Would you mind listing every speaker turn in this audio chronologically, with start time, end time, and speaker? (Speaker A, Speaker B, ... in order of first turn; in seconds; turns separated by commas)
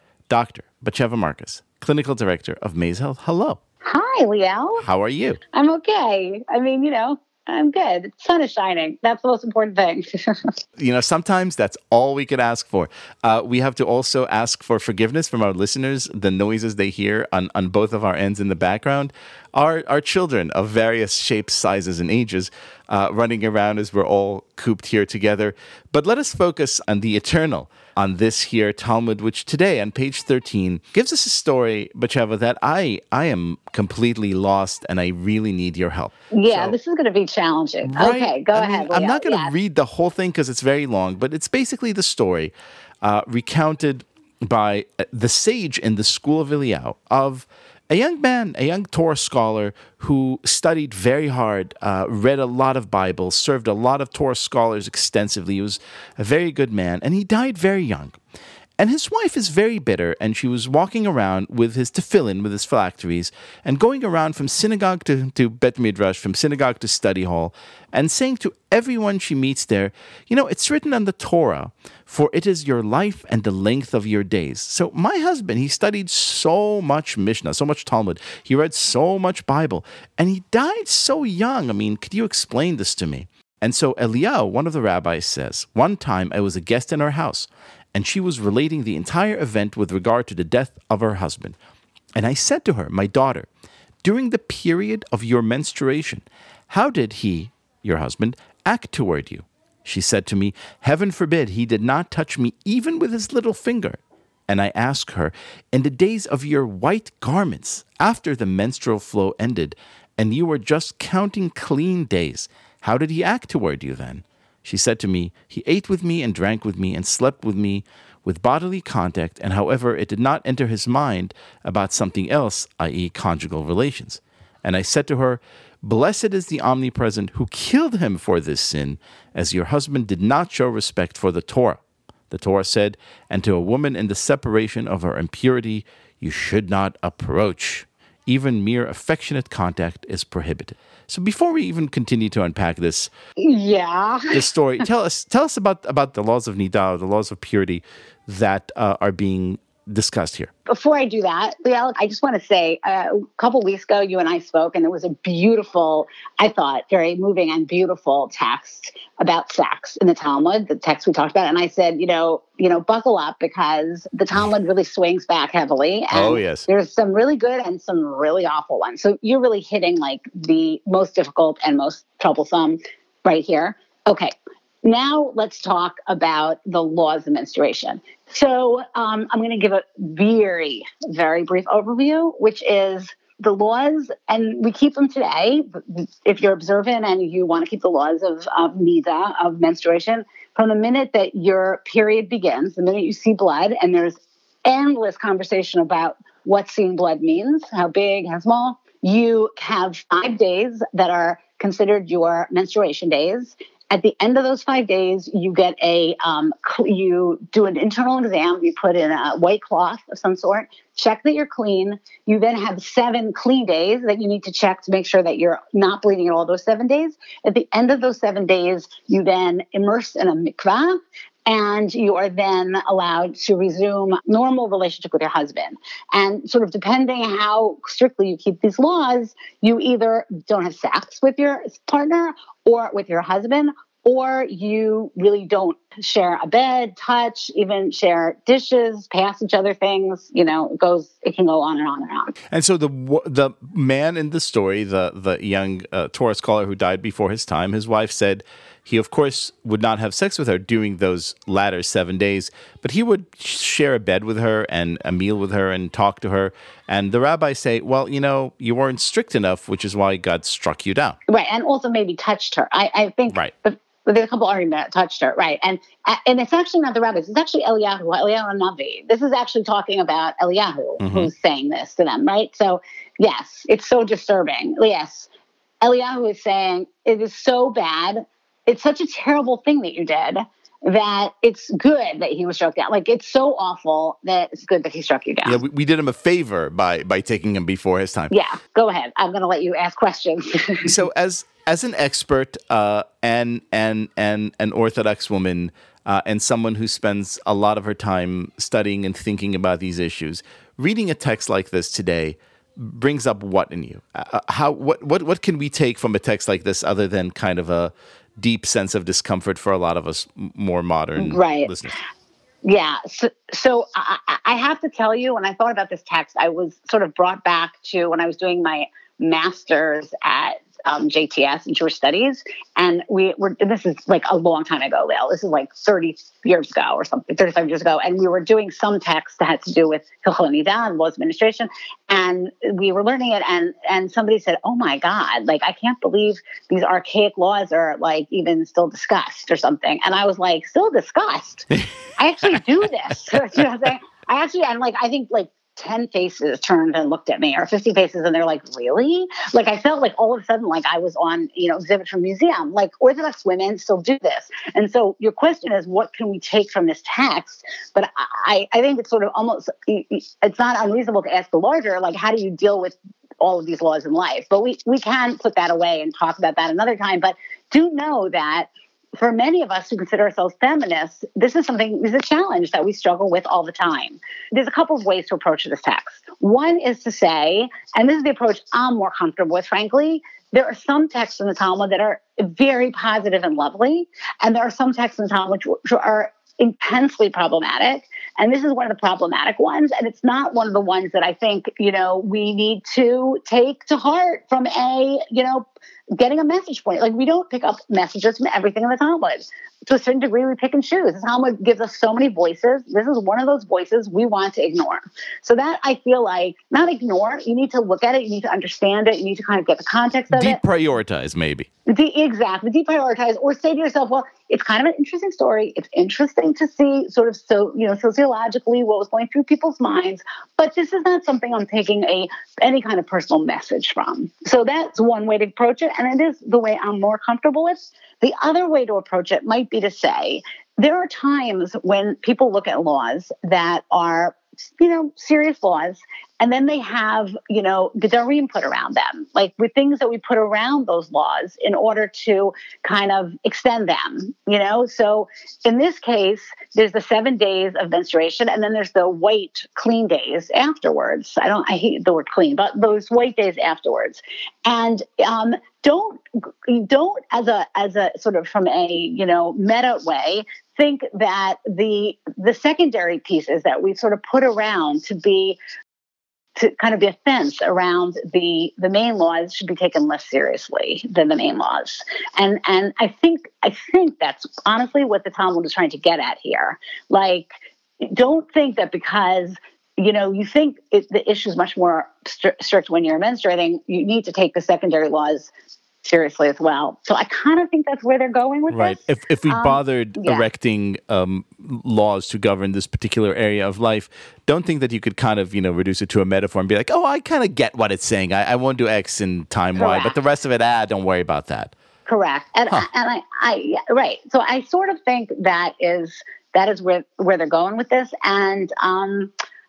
Speaker A: 0.3-3.6, Speaker B: 3.8-4.8, Speaker A: 4.8-5.4, Speaker B: 5.5-10.5, Speaker A: 10.8-36.8, Speaker B: 36.3-39.5, Speaker A: 37.8-58.2, Speaker A: 58.8-91.5, Speaker A: 92.2-93.5, Speaker A: 94.0-143.1, Speaker B: 143.4-144.4, Speaker A: 144.3-150.5, Speaker B: 150.7-174.3, Speaker A: 166.1-166.7, Speaker B: 174.8-242.3, Speaker A: 242.5-261.1, Speaker B: 261.3-275.3, Speaker A: 271.0-271.3, Speaker B: 275.8-285.6, Speaker A: 285.4-288.3, Speaker B: 288.3-290.9, Speaker A: 290.8-312.0, Speaker B: 311.1-311.7, Speaker B: 312.6-410.6, Speaker A: 410.3-411.7, Speaker B: 411.9-465.6, Speaker B: 466.6-485.5, Speaker B: 486.0-490.5, Speaker A: 488.7-501.7, Speaker B: 499.8-500.1, Speaker B: 502.1-509.3